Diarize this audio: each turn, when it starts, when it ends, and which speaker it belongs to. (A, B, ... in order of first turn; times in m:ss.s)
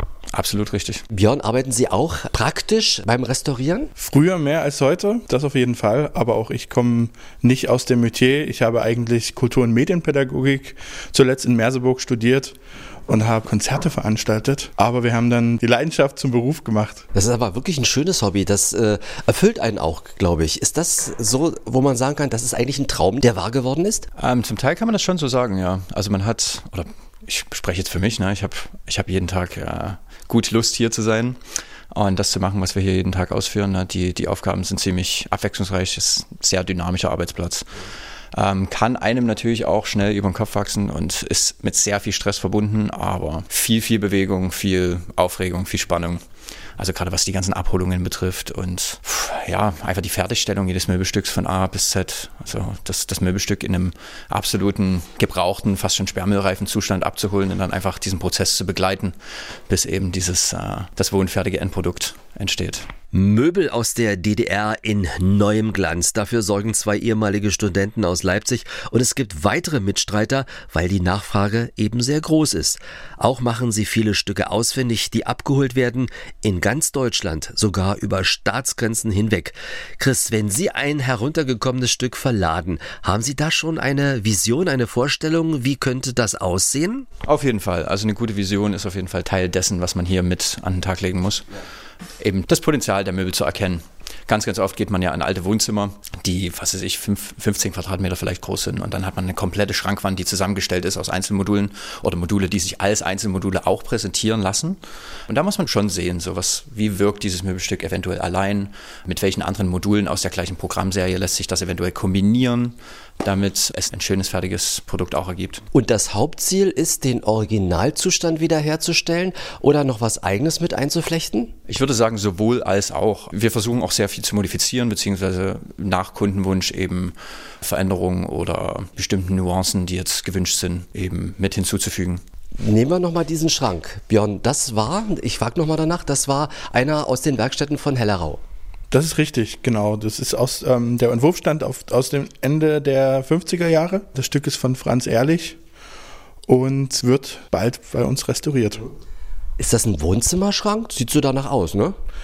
0:00.3-0:01.0 A
0:01.1-0:03.9 B
0:04.0-0:12.5 C
0:13.1-0:17.0 C
0:17.1-0:24.1 B
0:24.2-0:31.4 A
0:31.9-0:37.7 A
0:38.3-0:46.2 A
0:46.8-0:59.1 A
0:59.7-1:02.9 A
1:03.1-1:27.1 B
1:27.2-1:31.4 A
1:32.2-1:55.6 A
1:55.7-2:01.5 B
2:01.7-2:12.2 A
2:12.6-2:18.4 B
2:18.9-2:25.6 C
2:26.5-2:28.8 C
2:29.6-2:32.0 B